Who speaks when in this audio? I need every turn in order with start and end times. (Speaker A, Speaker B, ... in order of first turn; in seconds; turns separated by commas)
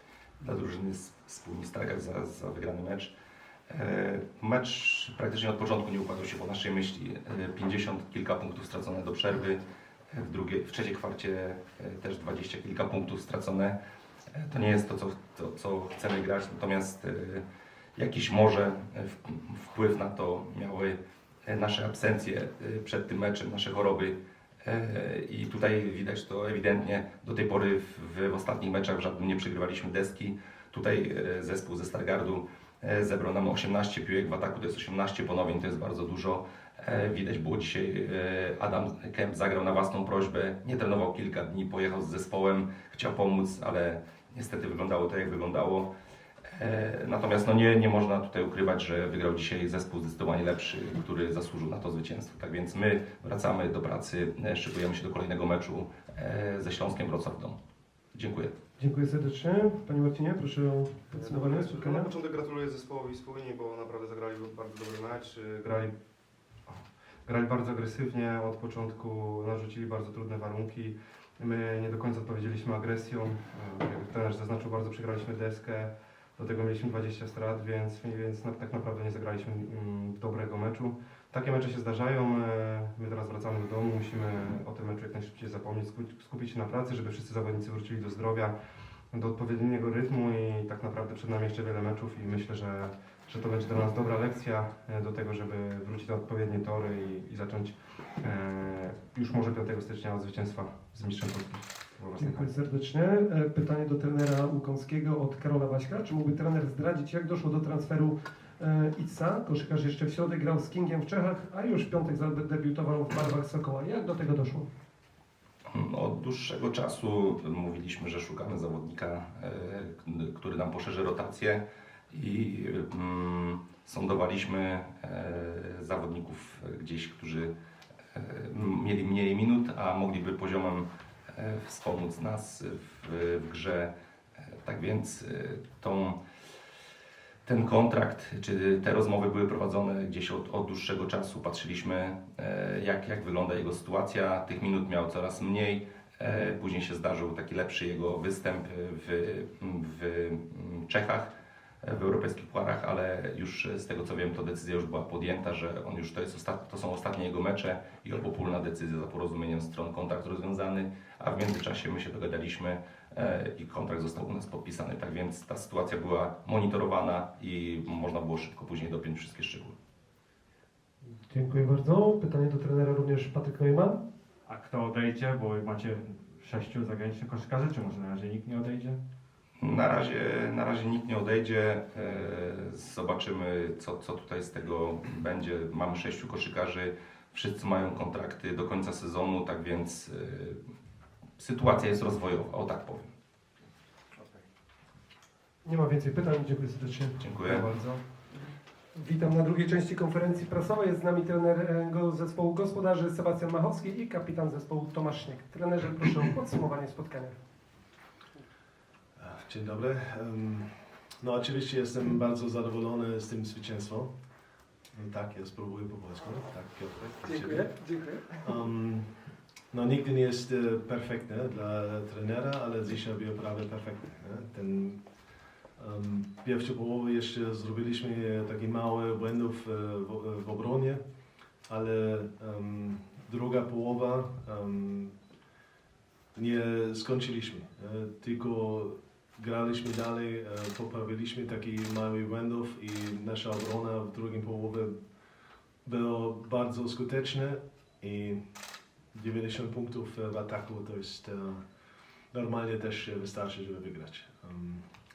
Speaker A: 0.4-3.1, Speaker A: 3.7-13.8, Speaker A: 14.3-17.4, Speaker A: 17.9-45.9, Speaker A: 46.5-57.6, Speaker A: 58.1-58.5, Speaker B: 58.8-62.1, Speaker C: 61.1-65.9, Speaker C: 66.6-88.5, Speaker C: 89.1-102.5, Speaker B: 102.2-114.7, Speaker A: 115.7-127.5, Speaker A: 128.1-133.9, Speaker A: 134.6-136.2, Speaker A: 137.4-151.3, Speaker A: 151.8-169.8, Speaker B: 171.2-174.0, Speaker D: 174.4-179.0, Speaker A: 179.6-190.6, Speaker A: 191.4-193.1, Speaker B: 195.6-197.2, Speaker A: 197.2-197.7, Speaker C: 197.4-198.0, Speaker B: 198.9-207.4, Speaker E: 209.2-214.1, Speaker E: 214.9-217.7, Speaker B: 217.2-218.4, Speaker E: 218.3-219.1, Speaker E: 219.7-225.0, Speaker E: 225.8-231.0, Speaker E: 231.7-235.1, Speaker E: 236.3-244.9, Speaker E: 245.8-248.4, Speaker E: 249.1-251.6, Speaker E: 252.3-254.8